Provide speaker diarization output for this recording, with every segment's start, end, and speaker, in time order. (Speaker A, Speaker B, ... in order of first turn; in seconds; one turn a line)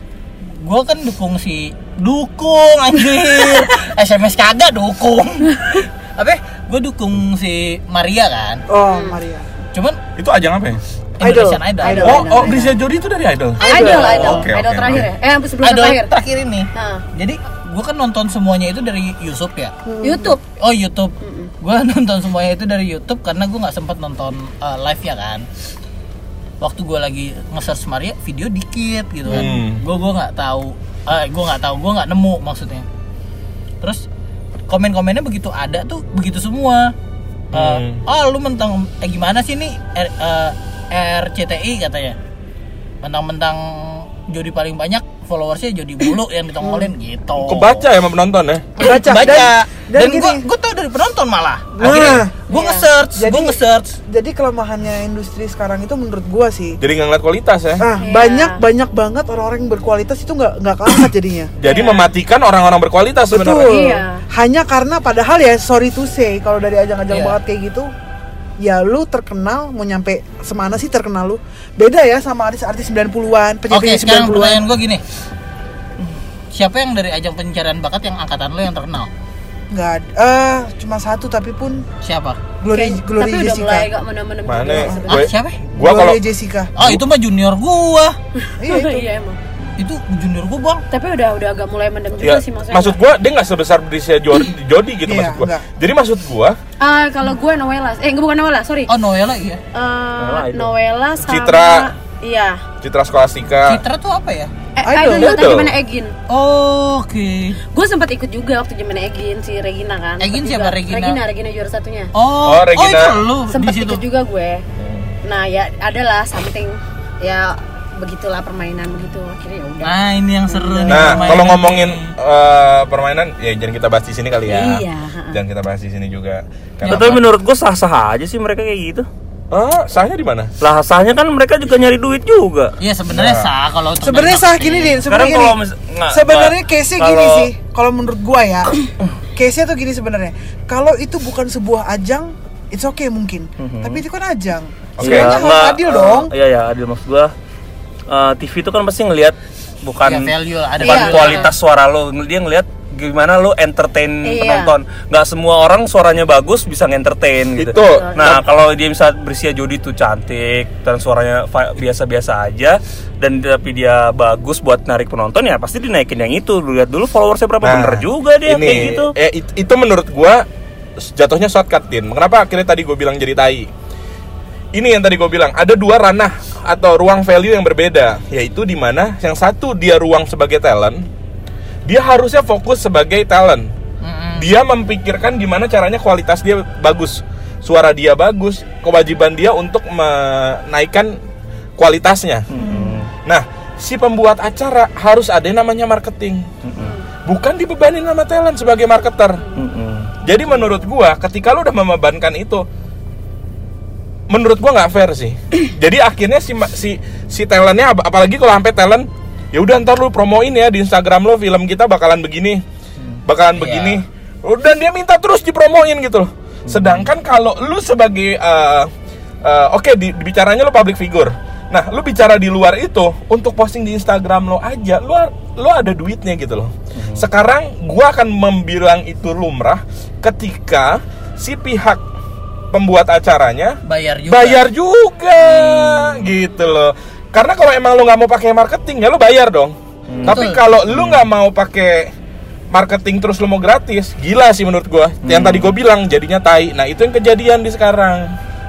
Speaker A: 0.6-8.6
Speaker B: 8.7-9.5
Speaker C: 8.8-9.2
Speaker D: 10.2-10.8
Speaker A: 11.2-12.5
Speaker B: 11.2-12.6
Speaker C: 11.8-12.6
Speaker D: 12.0-15.1
Speaker C: 13.6-16.1
Speaker B: 13.6-14.5
Speaker A: 15.6-19.7
Speaker C: 16.7-17.0
Speaker B: 19.9-20.3
Speaker C: 20.0-20.4
Speaker A: 20.6-25.4
Speaker C: 21.2-21.5
Speaker A: 26.6-32.9
Speaker D: 29.3-29.8
Speaker A: 34.7-36.9
Speaker D: 37.5-38.0
Speaker A: 37.5-42.2
Speaker A: 43.0-47.8
Speaker B: 46.6-46.9
Speaker D: 47.4-48.8
Speaker B: 48.8-50.4
Speaker A: 48.8-53.9
Speaker B: 51.8-52.3
Speaker D: 51.8-52.3
Speaker C: 52.5-52.9
Speaker B: 53.2-56.8
Speaker D: 56.8-57.9
Speaker B: 57.8-61.5
Speaker C: 58.0-58.6
Speaker D: 61.6-63.8
Speaker C: 61.6-62.1
Speaker B: 63.3-67.9
Speaker C: 63.6-64.2
Speaker A: 67.1-67.4
Speaker B: 68.6-74.7
Speaker A: 73.7-75.0
Speaker A: 76.5-79.1
Speaker B: 79.7-81.8
Speaker A: 82.0-82.4
Speaker B: 82.6-83.9
Speaker C: 82.7-85.2
Speaker D: 84.5-86.2
Speaker B: 84.7-85.1
Speaker A: 85.1-85.6
Speaker B: 85.7-86.7
Speaker A: 86.8-88.2
Speaker C: 88.4-89.4
Speaker B: 88.6-89.1
Speaker A: 89.8-90.8
Speaker C: 90.9-93.0
Speaker D: 92.2-96.6
Speaker B: 95.0-95.7
Speaker C: 96.8-98.9
Speaker A: 98.9-99.6
Speaker C: 99.7-102.6
Speaker E: 100.2-100.7
Speaker D: 101.2-101.9
Speaker D: 102.8-103.8
Speaker A: 103.7-104.5
Speaker C: 104.8-106.1
Speaker B: 104.8-105.5
Speaker D: 105.1-105.8
Speaker A: 106.3-107.6
Speaker C: 107.7-112.1
Speaker A: 110.2-111.2
Speaker A: 112.1-114.0
Speaker D: 112.4-113.2
Speaker C: 113.5-114.6
Speaker D: 114.8-115.1
Speaker C: 115.2-120.0
Speaker A: 119.8-122.1
Speaker C: 120.5-121.2
Speaker D: 120.9-127.2
Speaker C: 124.5-125.4
Speaker A: 126.8-127.2
Speaker E: 126.9-129.1
Speaker D: 129.5-130.5
Speaker E: 130.6-132.7
Speaker A: 132.8-135.0
Speaker D: 133.1-133.5
Speaker B: 134.0-138.8
Speaker E: 135.1-137.5
Speaker B: 139.4-146.3
Speaker E: 143.6-144.0
Speaker D: 145.0-145.4
Speaker E: 145.0-147.3
Speaker E: 148.1-169.1
Speaker A: 150.0-151.5
Speaker C: 150.8-151.5
Speaker C: 154.2-154.7
Speaker D: 157.6-158.4
Speaker C: 157.8-158.4
Speaker D: 167.6-170.4
Speaker D: 171.0-173.7
Speaker D: 174.7-181.1
Speaker D: 181.9-183.7
Speaker A: 184.0-184.5
Speaker D: 184.4-191.2
Speaker D: 191.8-192.4
Speaker E: 192.5-193.1
Speaker B: 192.6-193.0
Speaker D: 193.2-196.4
Speaker E: 196.6-196.9
Speaker C: 196.8-197.1
Speaker D: 197.2-199.4
Speaker C: 199.4-199.6
Speaker E: 199.6-200.1
Speaker D: 200.2-202.7
Speaker D: 204.3-212.6
Speaker D: 213.2-218.9
Speaker A: 213.6-214.0
Speaker E: 216.7-217.1
Speaker D: 219.4-232.0
Speaker E: 226.9-227.2
Speaker D: 232.7-242.1
Speaker A: 233.9-234.7
Speaker E: 235.6-236.2
Speaker E: 240.1-241.2
Speaker A: 240.2-240.6
Speaker D: 242.7-248.3
Speaker E: 245.2-245.7